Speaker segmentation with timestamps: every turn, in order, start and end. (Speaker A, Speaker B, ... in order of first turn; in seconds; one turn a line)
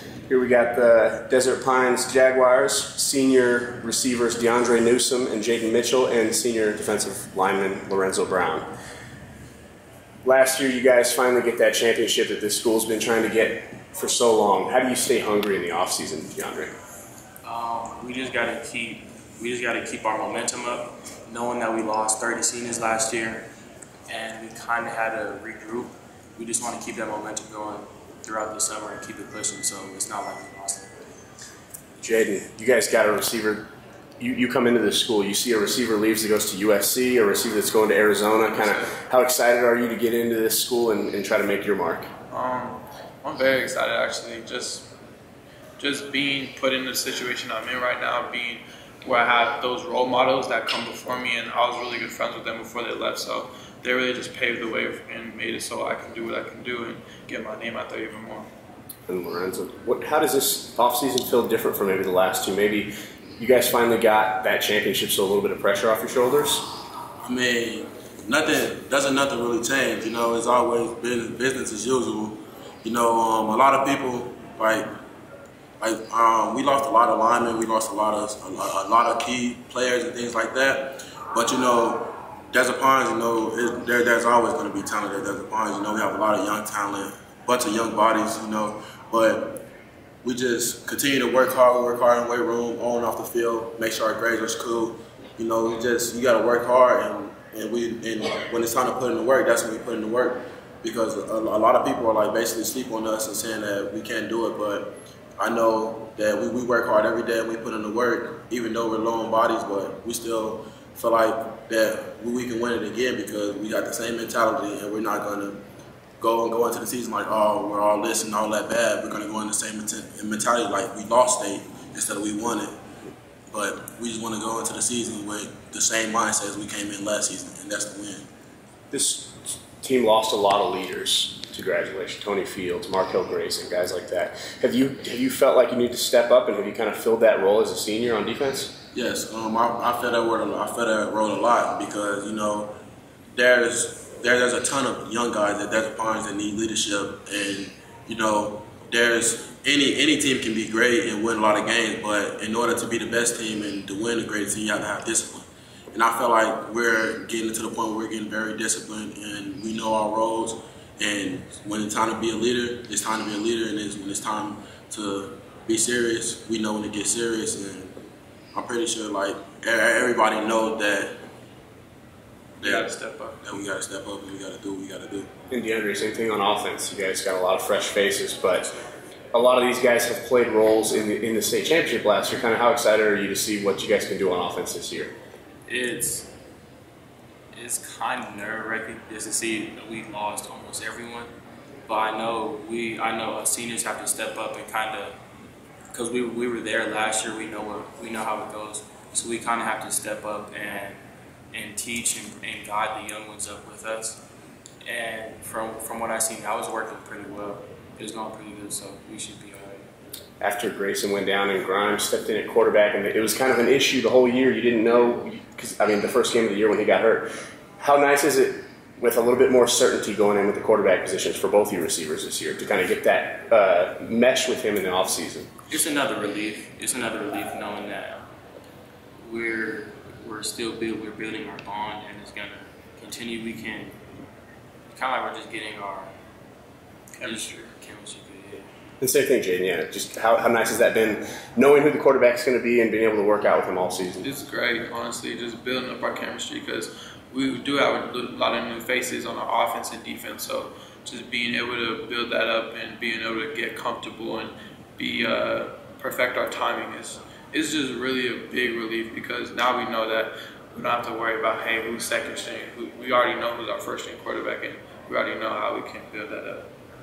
Speaker A: 0.3-8.7
Speaker A: 10.2-16.7
Speaker B: 17.4-23.5
Speaker B: 24.1-30.9
Speaker A: 32.0-33.7
Speaker A: 34.2-42.1
Speaker C: 38.5-38.9
Speaker C: 42.3-44.9
Speaker C: 45.8-58.5
Speaker A: 59.1-66.7
Speaker D: 67.2-74.9
Speaker D: 75.8-89.7
Speaker D: 90.2-115.6
Speaker D: 116.2-122.7
Speaker D: 123.5-128.3
Speaker A: 128.9-138.7
Speaker D: 138.9-142.7
Speaker D: 143.3-167.9
Speaker D: 168.5-171.2
Speaker C: 172.6-173.4
Speaker D: 172.6-175.3
Speaker A: 175.5-178.7
Speaker A: 179.3-185.1
Speaker B: 185.7-186.3
Speaker B: 187.5-191.3
Speaker B: 191.9-195.2
Speaker B: 195.9-201.0
Speaker B: 201.5-204.2
Speaker B: 204.8-209.9
Speaker A: 210.4-217.3
Speaker A: 217.8-225.5
Speaker B: 225.7-228.2
Speaker B: 229.2-234.0
Speaker B: 234.9-236.1
Speaker C: 237.2-237.7
Speaker B: 237.2-238.7
Speaker A: 239.0-244.3
Speaker C: 244.2-266.7